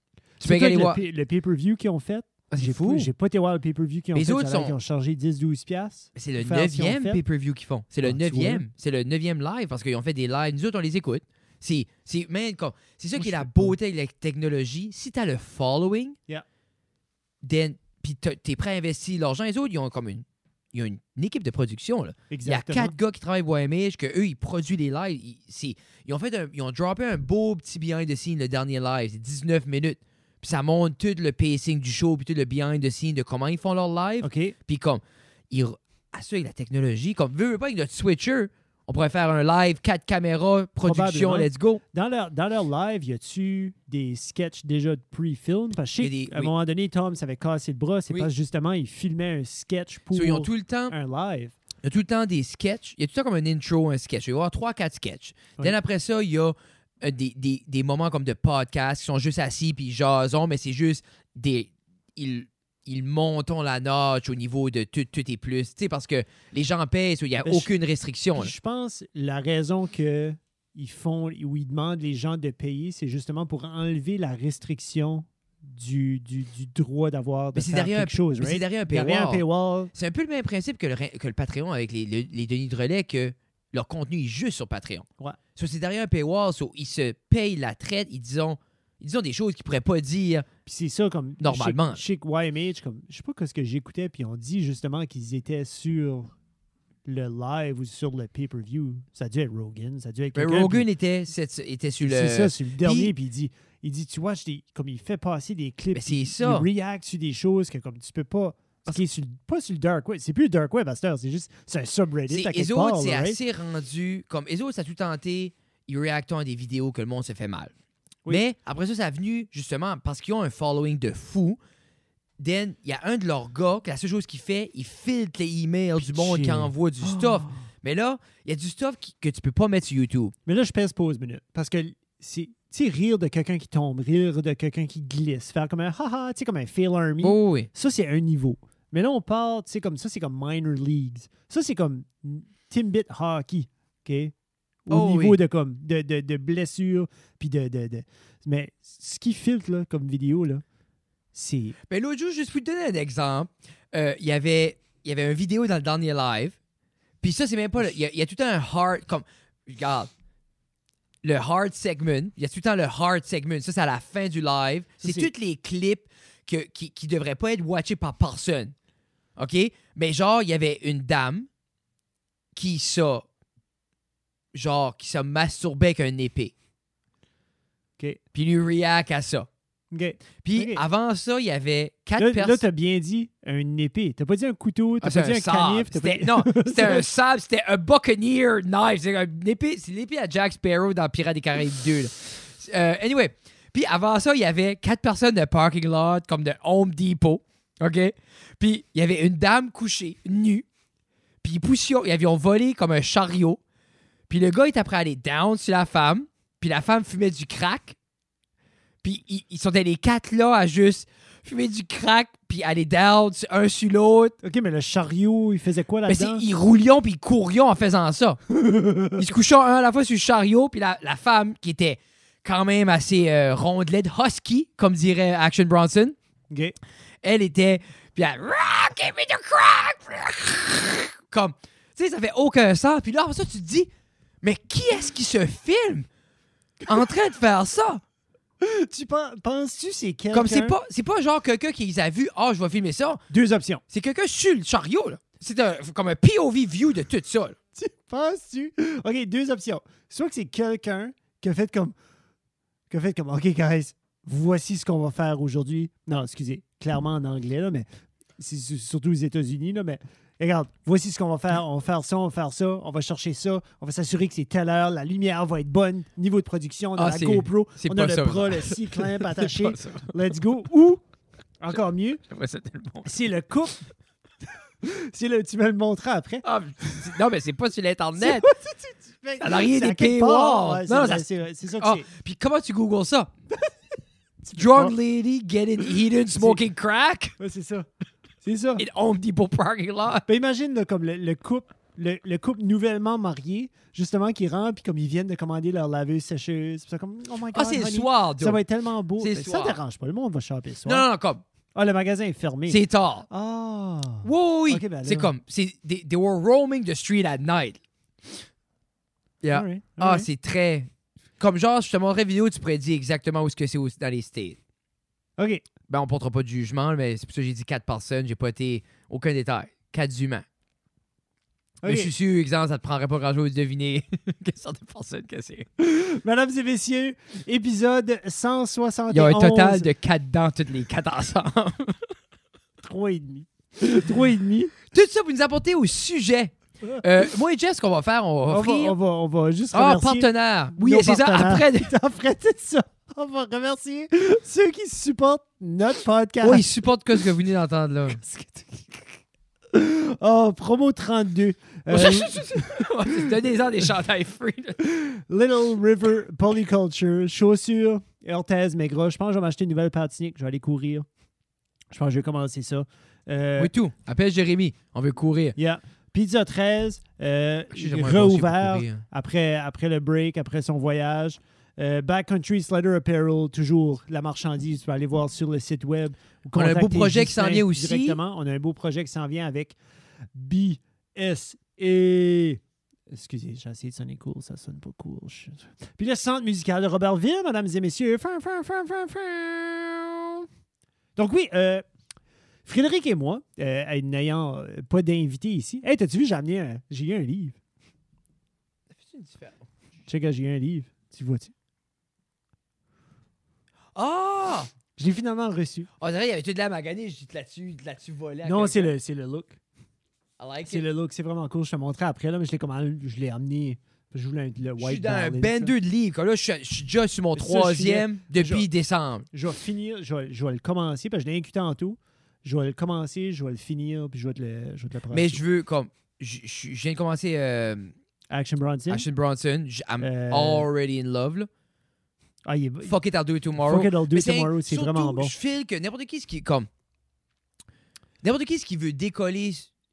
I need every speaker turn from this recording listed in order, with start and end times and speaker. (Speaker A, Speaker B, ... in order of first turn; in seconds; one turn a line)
Speaker A: 0.4-1.0
Speaker B: 0.4-7.2
Speaker A: 2.5-3.1
Speaker A: 4.1-4.8
Speaker A: 6.2-16.2
Speaker B: 8.0-8.6
Speaker B: 13.2-13.8
Speaker A: 17.4-41.8
Speaker B: 22.3-22.9
Speaker B: 34.2-34.5
Speaker B: 40.9-51.6
Speaker A: 46.0-46.5
Speaker A: 50.1-51.0
Speaker A: 51.8-68.5
Speaker B: 67.4-67.7
Speaker B: 68.3-79.9
Speaker A: 77.5-79.4
Speaker A: 79.9-90.5
Speaker B: 90.7-96.3
Speaker A: 91.4-92.0
Speaker B: 97.0-100.9
Speaker A: 100.3-103.1
Speaker B: 102.0-113.4
Speaker A: 105.9-106.7
Speaker A: 112.3-117.7
Speaker A: 118.3-121.6
Speaker A: 122.4-130.3
Speaker B: 126.0-127.6
Speaker B: 130.5-144.3
Speaker A: 137.2-137.7
Speaker B: 144.9-150.6
Speaker A: 144.9-145.4
Speaker B: 151.3-151.8
Speaker A: 151.9-156.6
Speaker A: 157.2-160.1
Speaker A: 161.2-168.7
Speaker B: 165.0-165.3
Speaker A: 169.4-171.5
Speaker A: 172.6-173.3
Speaker A: 174.5-176.5
Speaker A: 178.3-179.5
Speaker B: 179.9-180.8
Speaker A: 180.4-182.6
Speaker B: 182.2-187.1
Speaker A: 185.0-200.7
Speaker A: 201.4-203.6
Speaker A: 204.3-208.0
Speaker A: 209.0-214.4
Speaker B: 214.4-216.4
Speaker A: 216.1-218.4
Speaker B: 218.5-219.3
Speaker A: 219.2-226.2
Speaker B: 226.5-226.8
Speaker A: 227.2-233.9
Speaker A: 234.4-236.1
Speaker A: 236.9-238.0
Speaker B: 238.6-240.8
Speaker A: 240.3-243.2
Speaker B: 243.3-243.8
Speaker A: 243.9-247.6
Speaker B: 247.8-251.9
Speaker B: 252.9-257.9
Speaker B: 258.4-271.0
Speaker A: 267.0-270.1
Speaker B: 271.6-272.2
Speaker A: 272.3-273.3
Speaker B: 273.1-273.8
Speaker B: 274.8-276.4
Speaker A: 276.4-278.5
Speaker B: 278.2-282.1
Speaker A: 279.4-281.3
Speaker A: 281.8-283.3
Speaker B: 284.4-284.9
Speaker A: 284.6-287.4
Speaker B: 286.3-286.6
Speaker B: 287.4-287.9
Speaker B: 288.4-288.8
Speaker A: 288.8-290.3
Speaker B: 290.3-301.1
Speaker A: 297.5-298.6
Speaker A: 299.2-299.8
Speaker A: 300.9-301.4
Speaker B: 301.8-305.3
Speaker A: 302.7-303.3
Speaker A: 304.2-307.8
Speaker A: 309.4-310.9
Speaker B: 309.5-310.3
Speaker A: 311.4-314.6
Speaker B: 315.4-315.6
Speaker A: 315.9-320.4
Speaker B: 321.8-322.1
Speaker A: 321.8-325.7
Speaker B: 325.8-329.9
Speaker A: 329.1-332.0
Speaker B: 332.8-334.7
Speaker A: 334.9-338.9
Speaker B: 338.5-346.7
Speaker A: 339.7-341.9
Speaker A: 346.4-348.2
Speaker B: 348.2-349.0
Speaker B: 349.7-353.4
Speaker A: 351.9-354.8
Speaker B: 354.8-361.1
Speaker B: 361.9-363.7
Speaker A: 363.6-365.6
Speaker B: 365.6-379.8
Speaker A: 367.7-369.0
Speaker A: 376.5-378.2
Speaker B: 380.3-390.5
Speaker B: 391.2-391.8
Speaker B: 392.6-397.6
Speaker A: 398.9-399.6
Speaker B: 400.1-401.5
Speaker A: 403.9-404.7
Speaker B: 405.0-405.9
Speaker A: 406.0-408.9
Speaker B: 408.4-409.6
Speaker A: 410.4-410.9
Speaker B: 410.6-415.8
Speaker A: 414.8-419.3
Speaker B: 417.4-418.7
Speaker B: 419.3-425.4
Speaker A: 425.1-427.9
Speaker B: 428.3-429.1
Speaker A: 428.9-431.5
Speaker B: 430.0-430.7
Speaker B: 432.4-432.9
Speaker A: 432.9-436.7
Speaker B: 433.6-435.3
Speaker A: 438.2-439.7